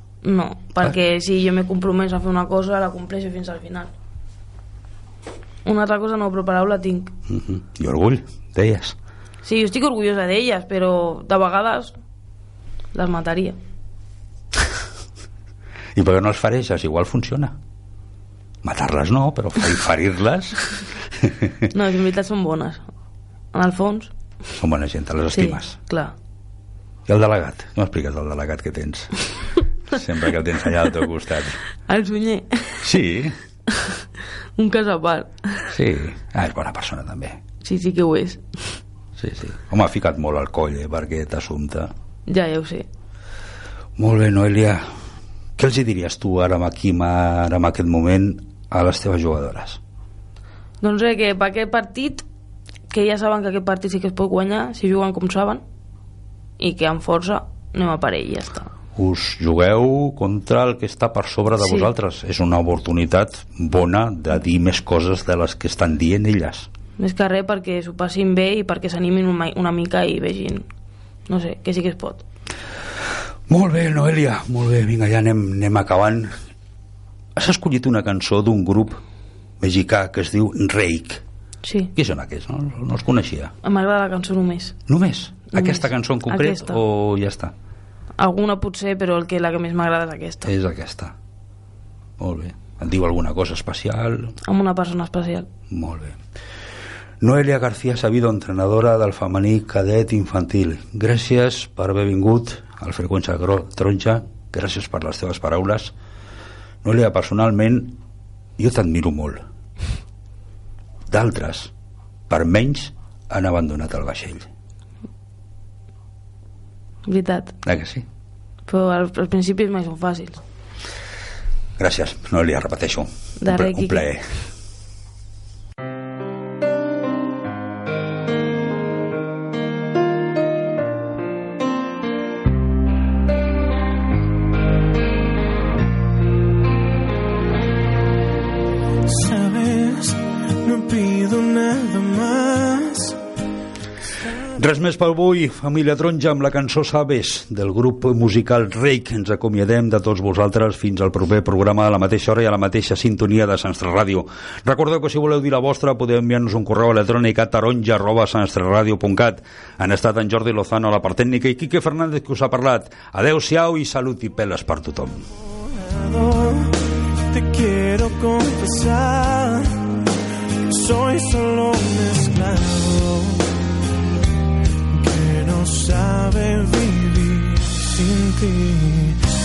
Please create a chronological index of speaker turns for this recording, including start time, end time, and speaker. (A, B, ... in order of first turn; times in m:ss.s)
0:00.2-0:03.9 A
0:05.6-0:07.1 A
0:07.3-0:09.0 B
0:09.4-0:11.9 A
0:12.9-0:13.6 A
0:15.9-0:17.6 B
0:18.6-0:21.7 B
0:21.7-0:22.8 A
0:23.5-0:24.1 A
0:24.6-0:25.8 B
0:25.3-0:26.1 A
0:27.1-0:29.1 B
0:29.9-0:31.6 B
0:31.8-0:32.8 A
0:32.8-0:33.4 B
0:34.6-0:35.7 A
0:35.7-0:37.4 B
0:37.6-0:38.4 A
0:39.2-0:41.9 B
0:42.3-0:42.8 A
0:44.0-0:44.8 B
0:45.6-0:49.8 B
0:50.8-0:52.2 A
0:52.9-0:55.6 A
0:56.6-0:58.7 A
0:59.0-1:06.7 B
1:01.6-1:01.9 A
1:07.0-1:10.6 A
1:11.3-1:12.2 A
1:13.5-1:16.3 B
1:17.4-1:19.0 B
1:19.6-1:21.2 B
1:21.6-1:21.9 A
1:21.9-1:23.5 B
1:23.6-1:24.8 A
1:24.9-1:27.5 B
1:25.5-1:26.8 A
1:28.2-1:30.5 A
1:30.4-1:31.1 B
1:32.2-1:34.4 B
1:34.4-1:35.5 A
1:35.7-1:36.2 B
1:37.2-1:45.9 B
1:46.8-1:48.0 B
1:48.6-1:49.4 B
1:51.1-1:51.7 B
1:52.3-1:54.5 B
1:57.0-1:57.5 A
1:57.6-1:58.0 B
1:58.7-2:00.4 A
2:01.8-2:04.2 B
2:03.4-2:04.1 A
2:19.0-2:23.2 C
2:24.5-2:45.2 B
2:45.6-2:50.0 C
2:50.7-2:53.5 C
2:54.9-2:59.2 C